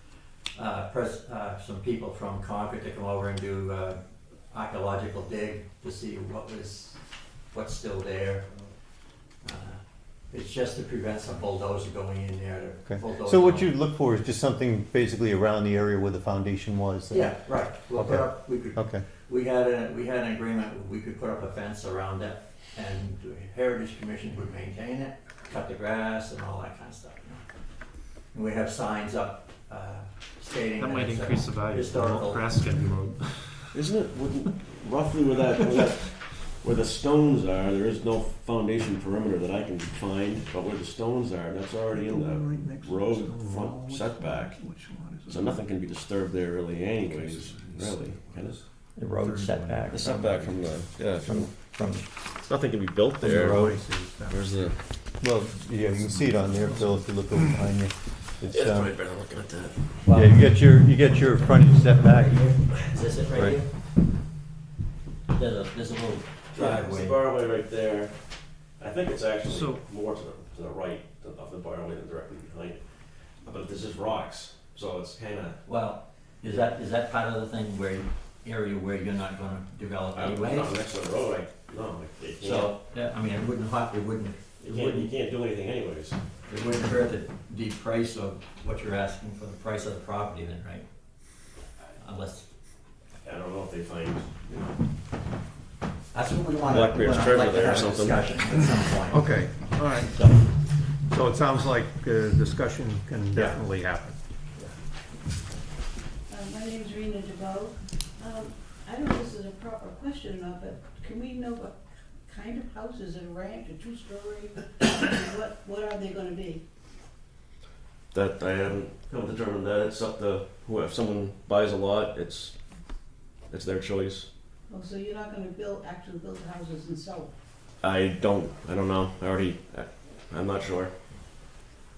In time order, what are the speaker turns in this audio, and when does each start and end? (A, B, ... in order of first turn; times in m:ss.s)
0:00.5-0:07.0 A
0:07.5-0:08.4 A
0:09.4-0:13.7 A
0:12.9-0:19.0 B
0:17.1-0:27.4 A
0:28.3-0:32.5 A
0:30.8-0:33.8 C
0:33.7-0:44.6 D
0:41.9-0:45.6 E
0:45.3-0:48.6 D
0:47.1-0:48.5 E
0:49.0-0:50.4 A
0:49.2-0:50.3 E
0:49.9-0:51.5 D
0:51.2-0:52.1 A
0:52.4-0:53.7 D
0:53.2-0:53.8 A
0:53.5-0:54.7 E
0:54.3-0:54.7 D
0:55.2-0:58.9 B
0:55.9-0:57.4 E
0:58.5-0:59.8 D
1:00.0-1:03.7 A
1:00.1-1:02.5 B
1:03.3-1:03.6 B
1:05.3-1:07.2 A
1:06.5-1:08.2 D
1:08.8-1:12.8 D
1:09.5-1:09.8 C
1:13.4-1:15.6 D
1:15.6-1:20.7 A
1:20.1-1:22.7 D
1:22.4-1:25.1 A
1:24.6-1:26.2 D
1:26.5-1:30.8 A
1:32.0-1:32.5 A
1:33.2-1:34.7 D
1:36.1-1:40.4 A
1:36.6-1:38.2 D
1:39.1-1:40.2 E
1:41.1-1:44.2 E
1:43.3-1:43.6 A
1:46.3-1:56.6 F
1:58.1-2:02.5 D
2:03.5-2:04.3 D
2:04.7-2:07.3 F
2:07.8-2:10.9 D